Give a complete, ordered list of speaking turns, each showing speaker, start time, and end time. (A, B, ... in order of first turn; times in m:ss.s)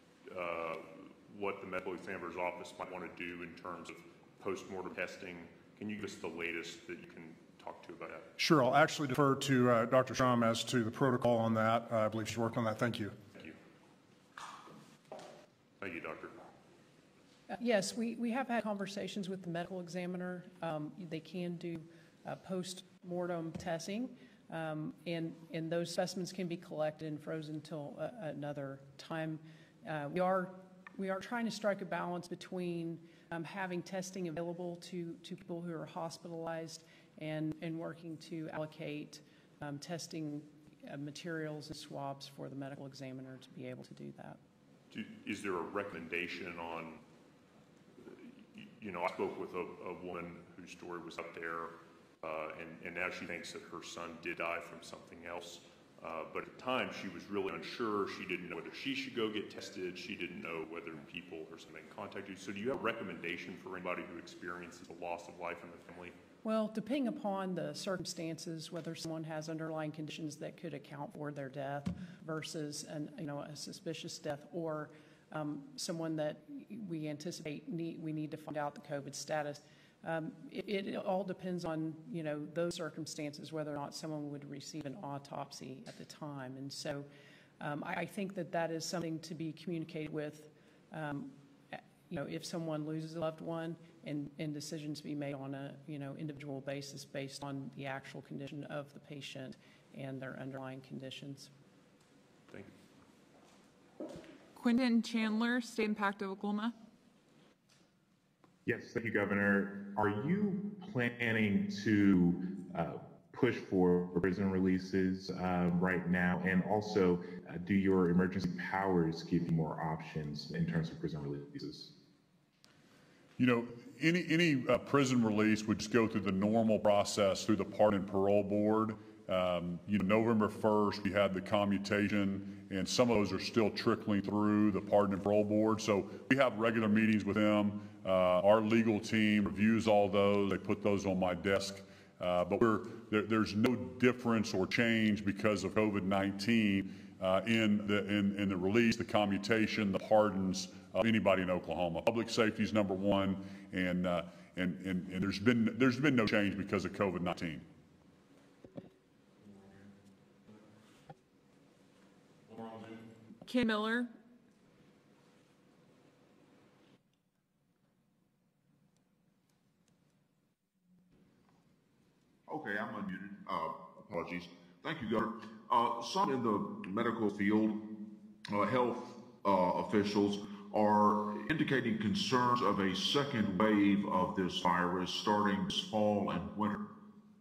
0:00.3-0:08.3 A
0:08.4-0:13.2 B
0:15.8-0:16.4 A
0:17.5-0:44.4 C
0:44.9-0:47.0 A
0:48.0-1:06.2 A
1:06.4-1:27.1 C
1:27.6-1:41.5 C
1:44.6-1:46.8 D
1:48.7-2:01.9 E
2:03.4-2:37.6 F
2:43.4-2:44.1 D
2:52.5-2:57.9 G
2:58.5-3:06.8 G